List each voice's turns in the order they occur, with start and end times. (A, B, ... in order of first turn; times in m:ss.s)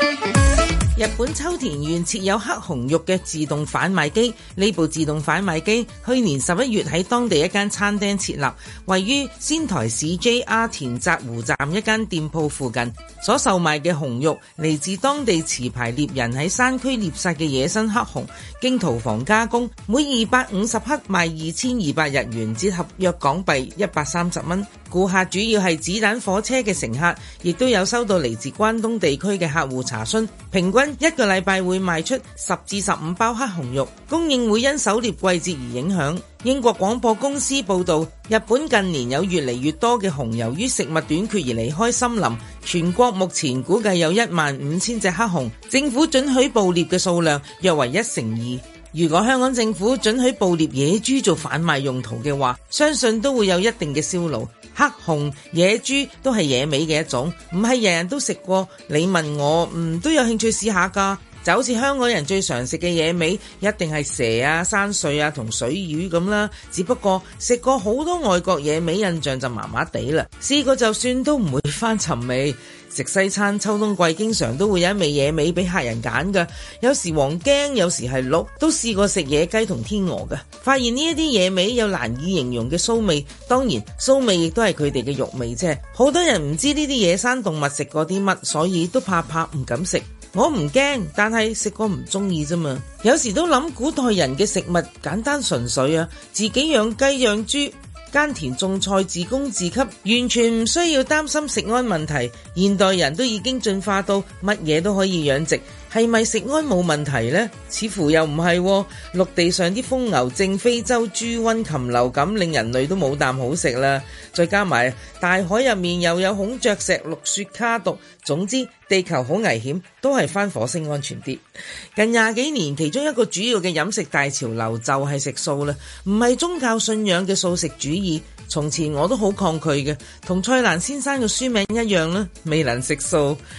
0:01.0-2:01.4 A
2:02.0-2:13.4 A